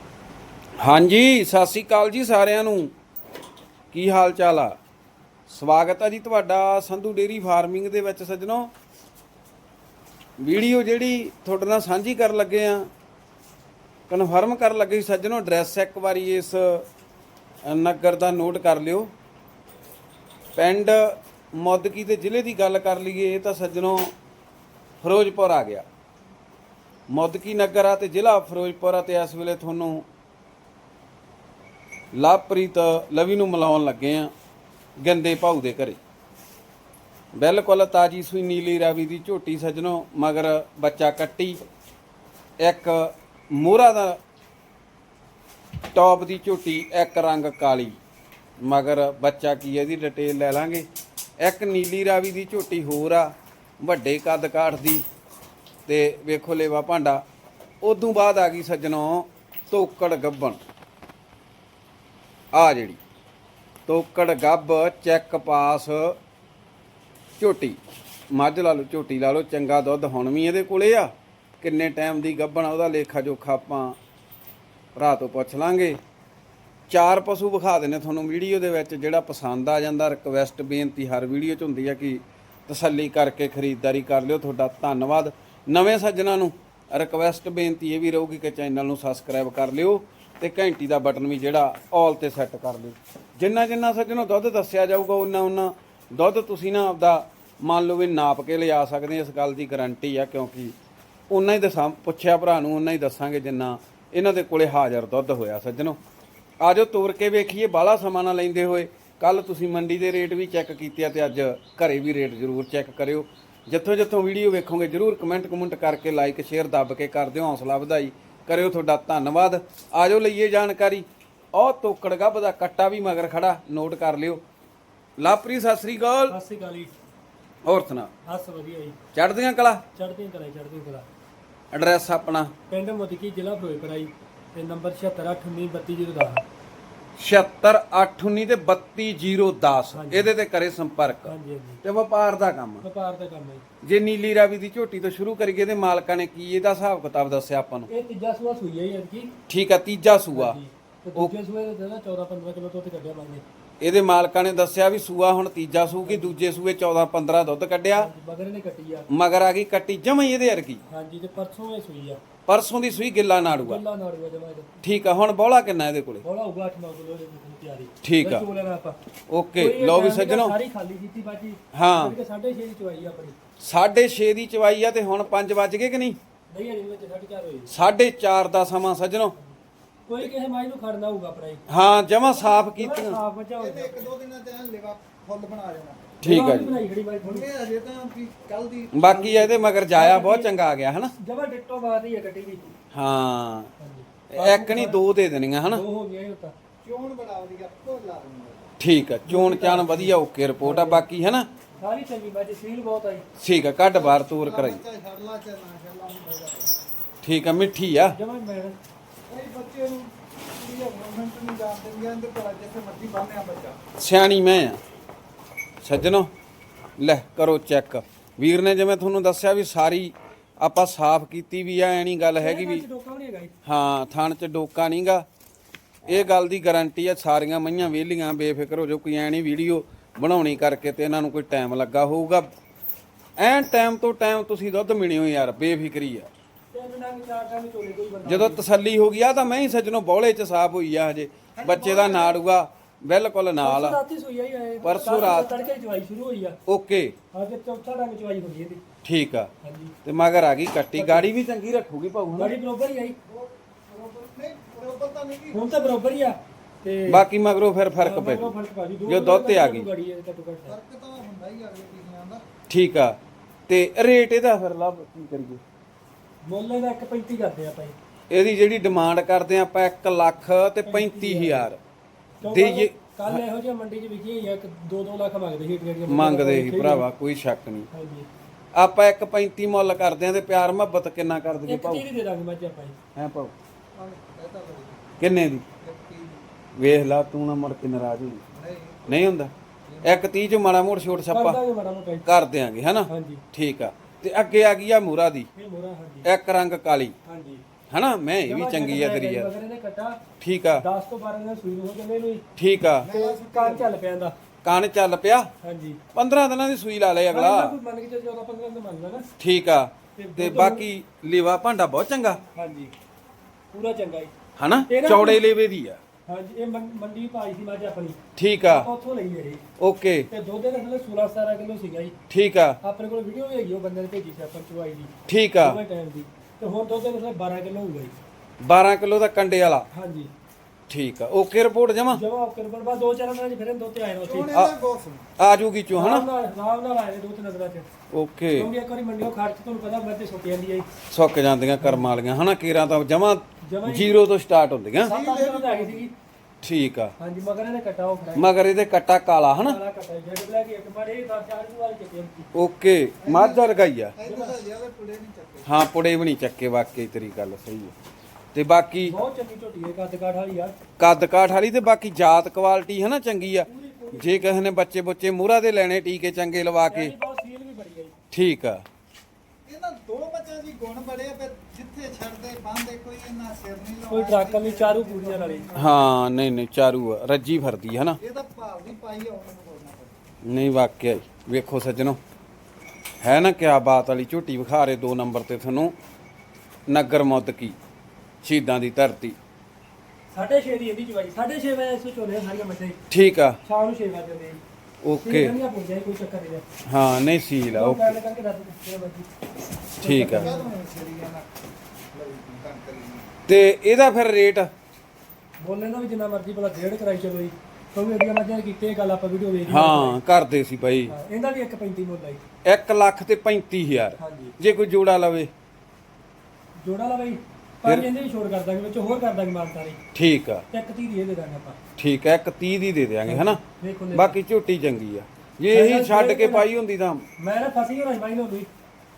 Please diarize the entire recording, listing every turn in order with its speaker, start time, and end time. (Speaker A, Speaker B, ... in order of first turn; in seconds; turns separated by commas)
Speaker A: 0.8-2.9, Speaker A: 3.9-4.8, Speaker A: 5.5-8.7, Speaker A: 10.4-12.9, Speaker A: 14.1-16.9, Speaker A: 17.6-19.1, Speaker A: 20.6-24.1, Speaker A: 25.0-25.9, Speaker A: 27.1-30.1, Speaker A: 32.1-34.3, Speaker A: 35.0-36.0, Speaker A: 37.4-41.6, Speaker A: 42.6-44.2, Speaker A: 45.9-48.0, Speaker A: 48.6-50.9, Speaker A: 51.4-55.0, Speaker A: 55.9-57.2, Speaker A: 57.8-60.6, Speaker A: 62.5-63.0, Speaker A: 63.9-66.2, Speaker A: 67.4-67.8, Speaker A: 68.3-74.0, Speaker A: 75.0-76.0, Speaker A: 76.9-100.8, Speaker A: 101.3-106.0, Speaker A: 106.6-124.4, Speaker A: 125.2-126.4, Speaker B: 126.3-126.9, Speaker A: 127.7-128.1, Speaker B: 128.3-129.0, Speaker A: 129.1-129.8, Speaker B: 129.9-131.1, Speaker A: 131.7-132.5, Speaker B: 132.7-136.4, Speaker A: 137.2-142.8, Speaker B: 139.9-140.3, Speaker B: 141.2-141.8, Speaker B: 142.8-143.6, Speaker A: 143.8-147.9, Speaker B: 147.9-149.3, Speaker A: 149.5-150.6, Speaker B: 150.3-153.4, Speaker A: 153.8-158.1, Speaker B: 156.1-156.4, Speaker B: 157.9-159.1, Speaker A: 159.1-160.8, Speaker B: 160.9-162.2, Speaker A: 162.5-163.8, Speaker B: 163.6-164.7, Speaker A: 164.8-166.2, Speaker B: 166.2-169.0, Speaker A: 168.0-168.4, Speaker A: 169.3-170.6, Speaker B: 169.6-173.4, Speaker A: 171.7-172.2, Speaker A: 173.6-176.2, Speaker B: 176.5-177.7, Speaker A: 177.7-179.3, Speaker B: 180.1-181.6, Speaker A: 181.7-183.2, Speaker B: 182.8-184.1, Speaker C: 183.6-186.2, Speaker A: 186.2-186.8, Speaker B: 186.2-187.5, Speaker C: 187.2-189.7, Speaker A: 188.9-191.1, Speaker B: 189.9-190.5, Speaker B: 191.2-192.8, Speaker A: 192.9-193.7, Speaker B: 193.8-195.0, Speaker A: 194.3-195.8, Speaker B: 195.7-196.5, Speaker C: 196.8-198.7, Speaker A: 198.8-201.5, Speaker B: 199.3-201.0, Speaker B: 201.8-203.2, Speaker A: 203.4-204.8, Speaker C: 203.9-206.7, Speaker A: 207.2-208.2, Speaker B: 208.1-208.8, Speaker C: 209.3-213.8, Speaker A: 214.0-214.8, Speaker A: 215.8-216.3, Speaker A: 217.0-222.8, Speaker B: 222.4-223.5, Speaker A: 223.6-225.2, Speaker A: 226.1-232.5, Speaker A: 233.4-236.3, Speaker B: 236.7-238.6, Speaker A: 238.2-244.0, Speaker C: 241.6-242.4, Speaker B: 243.6-246.6, Speaker C: 244.8-245.1, Speaker A: 244.8-245.7, Speaker A: 246.7-247.2, Speaker B: 247.3-248.8, Speaker A: 249.0-249.5, Speaker B: 249.6-249.9, Speaker A: 250.1-252.6, Speaker B: 250.9-251.3, Speaker B: 252.4-253.2, Speaker C: 253.2-255.7, Speaker B: 255.5-257.2, Speaker A: 257.1-258.5, Speaker B: 258.0-260.8, Speaker A: 259.1-259.9, Speaker C: 260.7-262.4, Speaker A: 262.7-263.2, Speaker A: 263.7-265.6, Speaker B: 266.4-267.9, Speaker A: 268.3-271.8, Speaker B: 270.9-271.7, Speaker B: 272.4-277.1, Speaker A: 272.4-273.4, Speaker A: 276.1-277.9, Speaker B: 277.9-278.3, Speaker A: 278.8-282.1, Speaker B: 281.7-283.0, Speaker A: 283.1-283.5, Speaker C: 283.9-285.1, Speaker A: 285.2-285.6, Speaker C: 285.8-286.4, Speaker A: 286.8-288.4, Speaker C: 288.6-289.4, Speaker A: 289.1-289.5, Speaker C: 289.9-290.3, Speaker A: 290.0-291.6, Speaker B: 291.3-292.3, Speaker A: 292.3-295.5, Speaker B: 293.1-293.4, Speaker B: 295.6-296.3, Speaker A: 296.2-297.1, Speaker B: 297.3-297.6, Speaker A: 297.9-299.5, Speaker B: 298.5-300.2, Speaker A: 300.4-300.9, Speaker B: 300.8-302.4, Speaker A: 302.6-303.1, Speaker C: 303.0-303.9, Speaker B: 303.1-304.4, Speaker A: 304.6-305.5, Speaker B: 305.6-306.0, Speaker A: 306.1-307.8, Speaker B: 307.3-309.3, Speaker A: 309.4-312.4, Speaker B: 310.2-310.9, Speaker B: 312.6-312.9, Speaker B: 313.7-314.3, Speaker A: 314.6-316.0, Speaker B: 314.9-315.4, Speaker B: 316.3-319.6, Speaker A: 318.4-318.9, Speaker A: 319.8-320.3, Speaker B: 320.3-322.1, Speaker A: 322.3-322.8, Speaker B: 322.8-328.1, Speaker A: 325.3-325.8, Speaker A: 328.6-329.9, Speaker B: 329.9-330.3, Speaker A: 330.9-332.2, Speaker B: 332.1-334.5, Speaker C: 334.2-335.3, Speaker A: 335.4-336.3, Speaker B: 335.9-337.9, Speaker A: 338.1-338.7, Speaker B: 338.6-340.9, Speaker A: 341.1-345.1, Speaker B: 341.8-342.1, Speaker B: 343.6-344.2, Speaker C: 345.0-346.1, Speaker B: 345.1-346.1, Speaker A: 346.6-347.1, Speaker B: 347.2-348.5, Speaker A: 348.4-349.8, Speaker B: 349.6-352.5, Speaker A: 352.5-354.2, Speaker C: 353.2-355.7, Speaker B: 354.2-354.6, Speaker A: 355.7-357.9, Speaker A: 358.5-359.1, Speaker B: 359.1-360.7, Speaker A: 361.0-367.1, Speaker B: 363.6-364.5, Speaker B: 366.9-368.1, Speaker A: 368.3-368.9, Speaker C: 369.7-375.9, Speaker B: 374.1-375.7, Speaker A: 375.8-378.2, Speaker C: 378.2-380.2, Speaker A: 380.4-382.2, Speaker A: 383.2-385.9, Speaker A: 386.9-387.8, Speaker A: 388.4-389.4, Speaker B: 390.3-393.0, Speaker A: 393.1-393.6, Speaker B: 393.6-394.6, Speaker A: 395.0-395.6, Speaker B: 395.2-396.6, Speaker A: 396.9-398.2, Speaker B: 397.7-399.3, Speaker A: 400.0-400.5, Speaker B: 400.0-400.7, Speaker C: 400.3-401.5, Speaker C: 402.1-403.3, Speaker A: 403.5-404.7, Speaker B: 405.6-410.2, Speaker A: 409.7-411.1, Speaker B: 411.1-412.4, Speaker A: 412.6-415.5, Speaker B: 414.2-414.6, Speaker B: 416.8-420.0, Speaker A: 420.1-420.6, Speaker B: 420.7-421.8, Speaker A: 422.0-423.6, Speaker B: 423.3-424.4, Speaker A: 424.1-427.2, Speaker B: 425.7-426.7, Speaker B: 427.4-428.7